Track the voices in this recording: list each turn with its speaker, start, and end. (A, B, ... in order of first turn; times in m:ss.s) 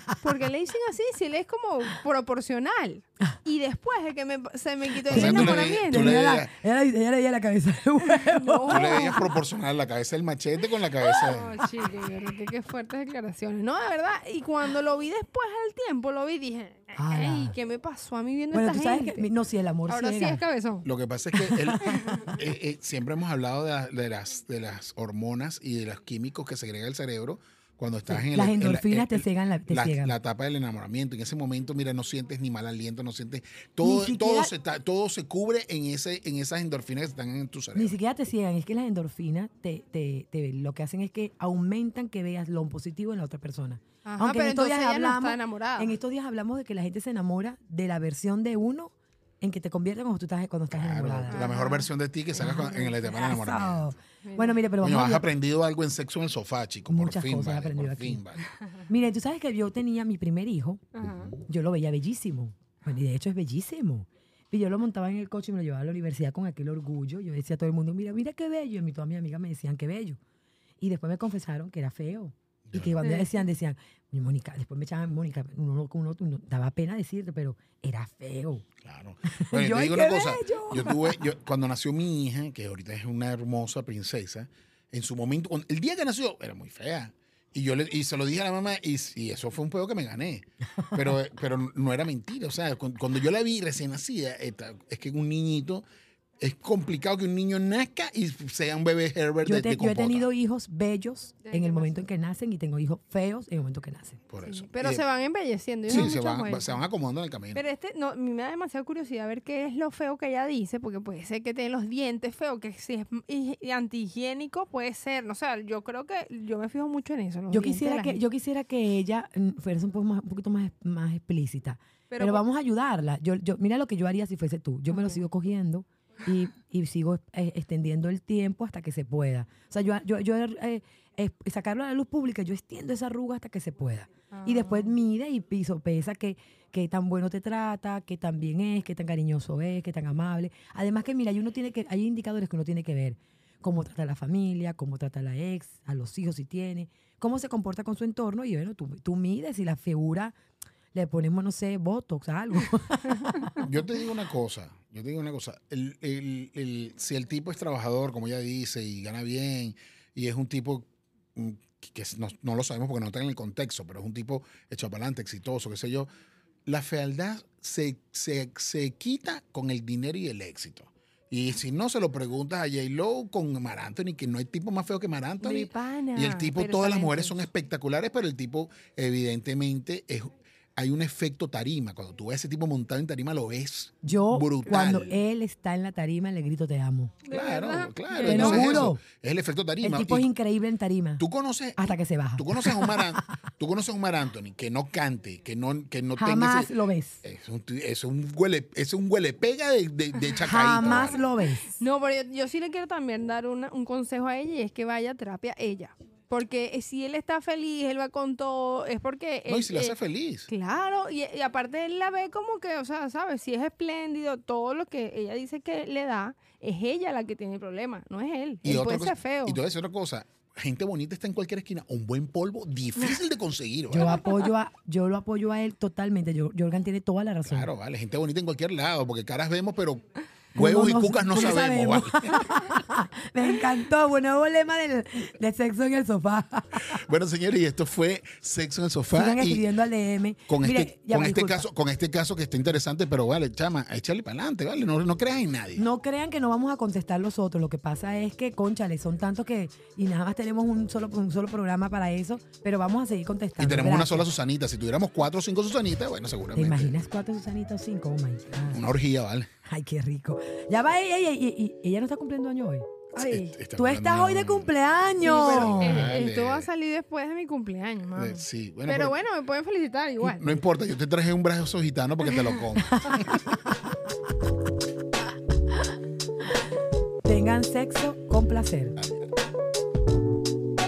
0:00.2-0:06.2 A
0:05.1-0:06.5 B
0:05.1-0:09.2 C
0:08.0-0:09.3 A
0:08.7-0:11.6 B
0:11.0-0:19.3 A
0:17.0-0:17.6 C
0:18.5-0:20.4 C
0:19.9-0:20.9 A
0:20.8-0:38.0 B
0:21.6-0:22.3 A
0:28.1-0:30.2 C
0:33.8-0:34.5 C
0:37.8-0:51.5 C
0:44.0-0:46.0 A
0:50.7-0:53.9 B
0:51.3-0:51.9 A
0:52.4-0:55.2 C
0:54.2-0:54.6 A
0:54.8-0:58.4 B
0:56.9-0:58.2 C
0:58.9-1:00.8 C
1:00.9-1:01.4 A
1:01.0-1:01.3 B
1:01.5-1:10.2 C
1:10.8-1:18.7 C
1:12.7-1:12.9 B
1:13.0-1:13.3 A
1:18.8-1:35.8 B
1:19.2-1:21.2 C
1:36.4-1:40.3 B
1:39.4-1:44.2 C
1:41.4-1:42.0 A
1:44.3-1:45.0 B
1:44.4-1:46.8 A
1:45.9-1:47.6 B
1:47.5-1:58.2 A
1:57.5-2:30.4 C
2:02.1-2:02.4 A
2:04.9-2:05.2 A
2:14.3-2:14.9 A
2:30.9-2:33.7 C
2:33.6-2:46.1 B
2:46.7-3:05.2 B
2:55.4-2:57.5 A
3:04.0-3:07.2 C
3:07.2-3:08.9 A
3:07.3-3:10.3 B
3:08.2-3:09.0 C
3:09.8-3:11.2 C
3:11.2-3:21.2 B
3:11.8-3:13.4 C
3:16.2-3:17.2 C
3:20.4-3:21.7 C
3:21.8-3:30.0 A
3:29.5-3:30.5 B
3:30.5-3:39.6 A
3:38.6-3:44.3 B
3:43.9-3:47.7 C
3:47.5-3:50.0 B
3:50.5-3:52.5 B
3:50.6-3:57.0 C
3:56.9-3:59.7 B
3:59.1-4:01.6 C
4:00.5-4:05.8 B
4:05.8-4:14.3 C
4:13.6-4:16.9 B
4:16.5-4:18.9 C
4:18.7-4:19.5 B
4:19.6-4:22.9 C
4:23.2-4:23.6 A
4:23.2-4:24.7 B
4:23.7-4:26.1 C
4:25.2-4:30.6 A
4:25.3-4:26.7 B
4:28.2-4:29.2 B
4:30.2-4:33.4 B
4:32.3-4:32.6 A
4:32.9-4:33.4 C
4:37.2-4:39.0 C